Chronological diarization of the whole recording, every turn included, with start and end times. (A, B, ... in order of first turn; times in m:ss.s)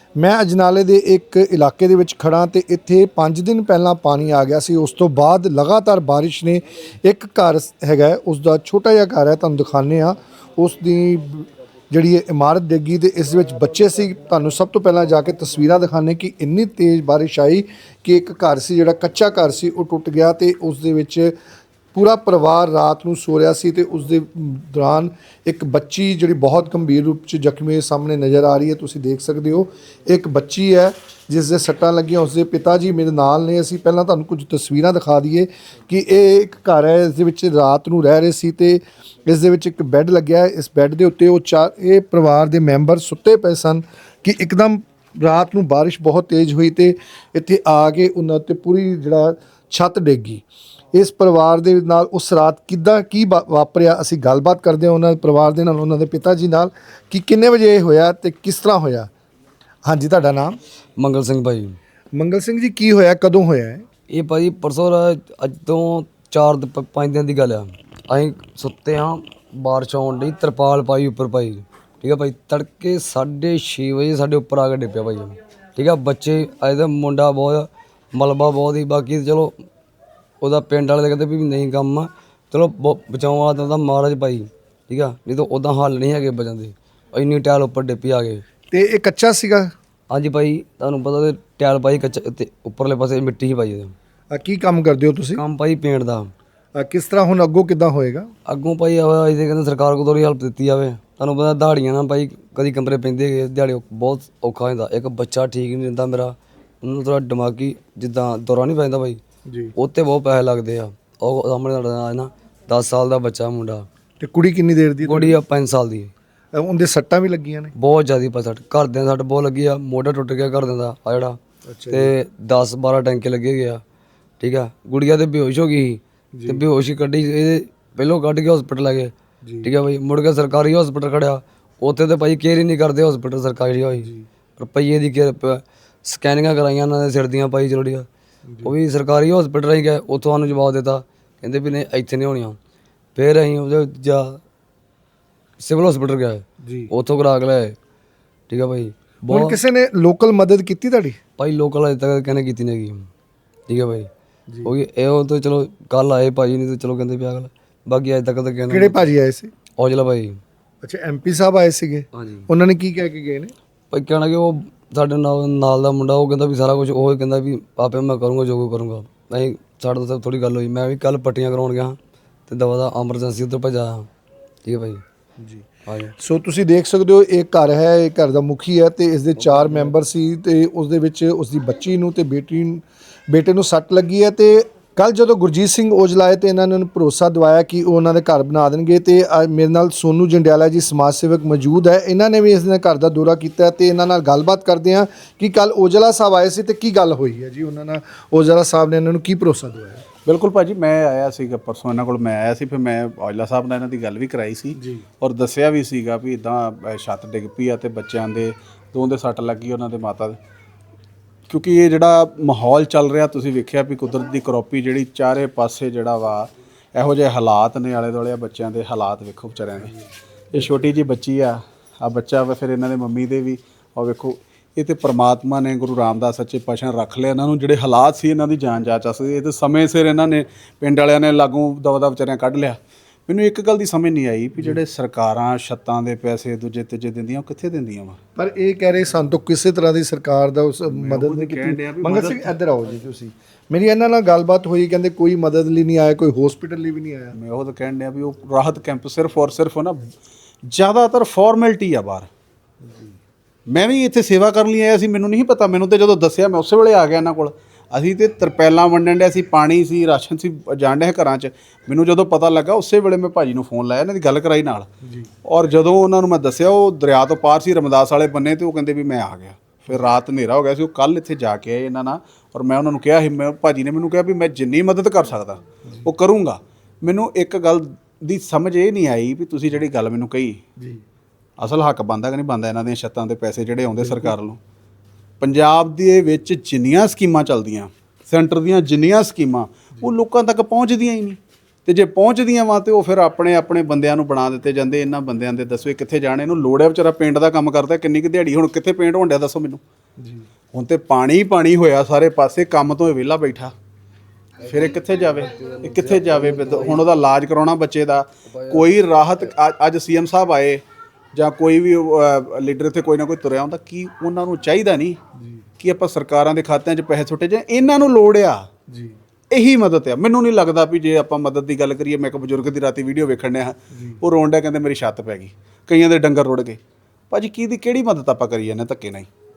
0:00.2-0:21.3 A
0:21.9-0:59.1 A
0:59.9-1:00.6 A
1:01.0-1:01.8 B
1:02.2-1:03.8 A
1:04.1-1:19.5 B
1:20.4-1:28.4 B
1:28.7-1:29.7 A
1:30.1-1:33.9 B
1:34.3-1:35.4 A
1:35.3-1:36.3 B
1:36.7-1:38.3 A
1:38.5-1:49.2 B
1:49.5-1:49.7 A
1:49.8-1:53.8 B
1:54.2-1:55.4 A
1:55.0-1:56.1 B
1:56.6-1:57.7 A
1:57.8-2:01.4 B
2:01.7-2:02.1 A
2:01.9-2:03.8 B
2:04.4-2:18.1 B
2:06.3-2:06.6 A
2:09.4-2:09.7 A
2:18.5-2:18.7 A
2:18.6-2:22.6 B
2:23.2-2:24.4 B
2:25.6-2:27.8 B
2:26.6-2:26.9 A
2:28.5-2:29.6 B
2:29.3-2:31.2 A
2:31.4-2:33.1 B
2:33.7-2:34.1 B
2:34.6-2:39.0 B
2:38.7-2:39.5 A
2:39.8-2:40.4 B
2:40.8-2:43.5 A
2:42.2-2:42.5 B
2:43.9-2:54.1 B
2:54.6-2:55.0 B
2:55.4-2:55.7 A
2:55.9-2:56.1 B
2:56.2-3:20.0 A
2:59.4-2:59.9 B
3:20.2-3:30.4 C
3:24.8-3:25.0 A
3:31.5-3:39.9 C
3:40.5-3:58.2 C
3:58.4-4:07.3 A
4:00.9-4:02.6 C
4:07.4-4:10.1 C
4:10.7-4:12.3 C
4:12.8-4:13.1 A
4:13.7-4:24.9 C
4:25.0-4:25.3 A
4:25.4-4:40.6 C
4:41.6-4:44.6 C
4:44.0-4:44.4 A
4:45.4-4:59.8 C
5:00.2-5:00.5 A
5:00.7-5:03.7 C
5:04.6-5:07.0 B
5:04.6-5:10.8 C
5:08.5-5:08.9 B
5:11.4-5:15.2 C
5:15.4-5:15.7 A
5:15.8-5:18.7 C
5:18.9-5:19.2 A
5:19.5-5:26.8 C
5:23.9-5:24.2 A
5:27.3-5:29.3 C